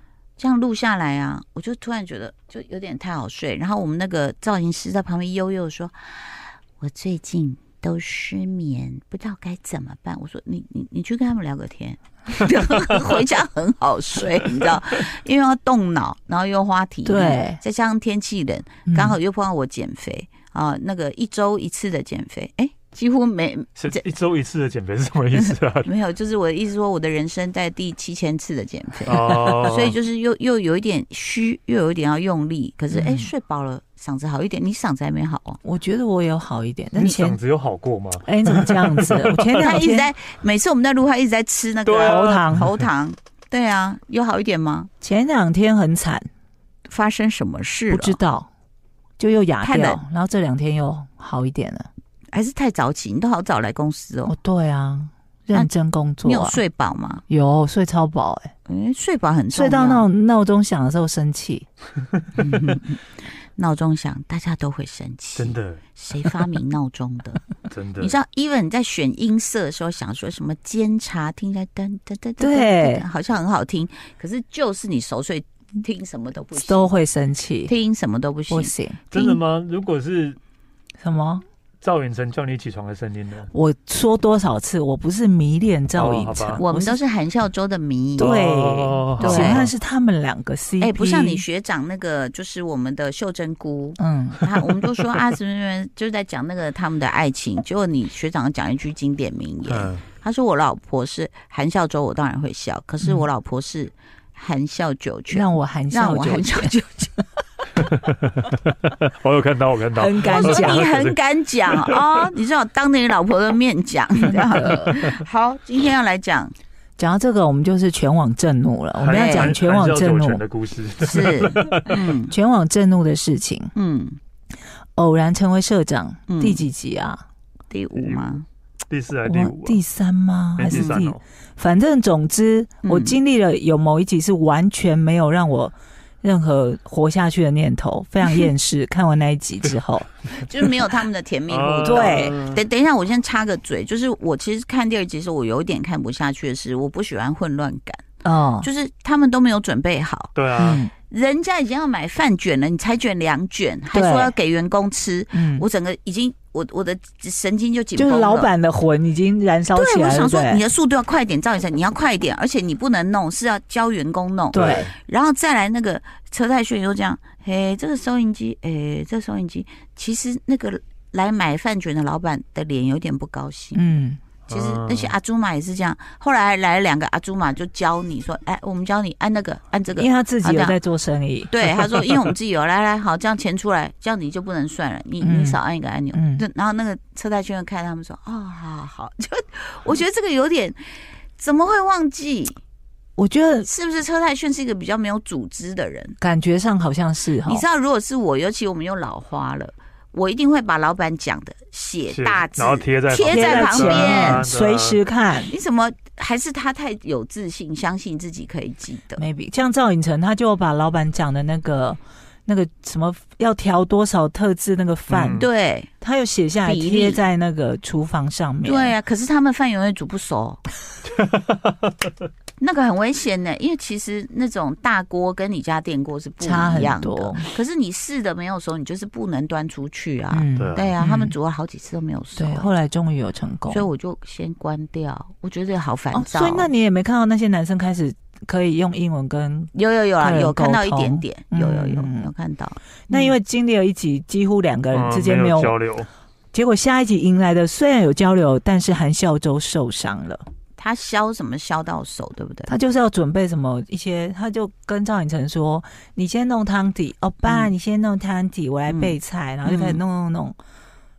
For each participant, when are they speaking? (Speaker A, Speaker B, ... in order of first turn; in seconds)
Speaker A: 0.4-24.0, 25.3-35.6, 39.6-44.9, 46.9-48.2, 49.6-50.0, 52.3-54.4, 56.2-57.2, 58.7-60.1, 62.4-67.4, 68.0-76.9, 77.7-78.7, 86.6-88.4, 89.2-89.7, 90.8-107.1, 110.3-116.5, 119.0-119.5, 121.0-122.3, 123.7-124.2, 126.3-126.6, 127.7-128.4, 130.7-131.0, 132.8-133.2, 140.3-148.0, 148.6-150.3, 150.9-158.5, 159.7-173.8, 174.5-180.8, 181.5-190.8, 191.3-192.6, 193.6-196.2, 197.4-204.4, 205.5-209.2, 215.3-215.9, 216.6-217.2, 218.6-220.6, 222.6-232.7, 233.7-236.7, 239.7-243.3, 250.8-252.7, 257.4-257.7, 258.9-260.0
Speaker B: 17.1-17.6, 18.9-19.2, 32.9-33.3, 35.6-37.4, 38.2-40.1, 42.0-42.7, 45.0-46.2, 47.9-48.5, 49.2-51.9, 54.3-56.6, 57.3-58.5, 59.5-61.6, 72.4-73.0, 76.6-77.7, 78.5-79.0, 81.0-81.4, 83.5-87.0, 88.2-91.4, 94.0-94.5, 105.3-106.7, 110.0-110.8, 114.3-114.9, 117.0-120.4, 122.3-123.7, 125.0-127.2, 129.2-140.1, 141.8-142.4, 148.2-148.7, 150.6-150.9, 153.9-154.3, 155.3-155.7, 157.9-160.6, 164.5-164.9, 173.7-174.2, 180.0-181.7, 185.2-185.6, 186.1-186.4, 193.2-193.7, 196.2-197.6, 203.2-205.5, 209.2-215.5, 216.0-218.9, 226.4-227.4, 230.3-231.3, 232.4-233.8, 236.1-242.3, 243.1-245.8, 246.5-250.4, 252.7-260.6
Speaker C: 23.8-25.9, 29.1-29.9, 36.9-39.7, 41.8-42.6, 65.4-65.8, 67.7-68.2, 79.1-80.4, 81.8-83.5, 86.0-86.6, 88.2-89.7, 99.7-100.0, 107.8-111.2, 119.0-122.0, 128.0-128.3, 128.9-129.8, 130.6-131.2, 141.5-142.6, 150.3-150.8, 164.5-164.9, 174.5-175.1, 202.1-205.0, 215.1-215.4, 221.1-221.9, 230.6-230.9, 244.9-246.1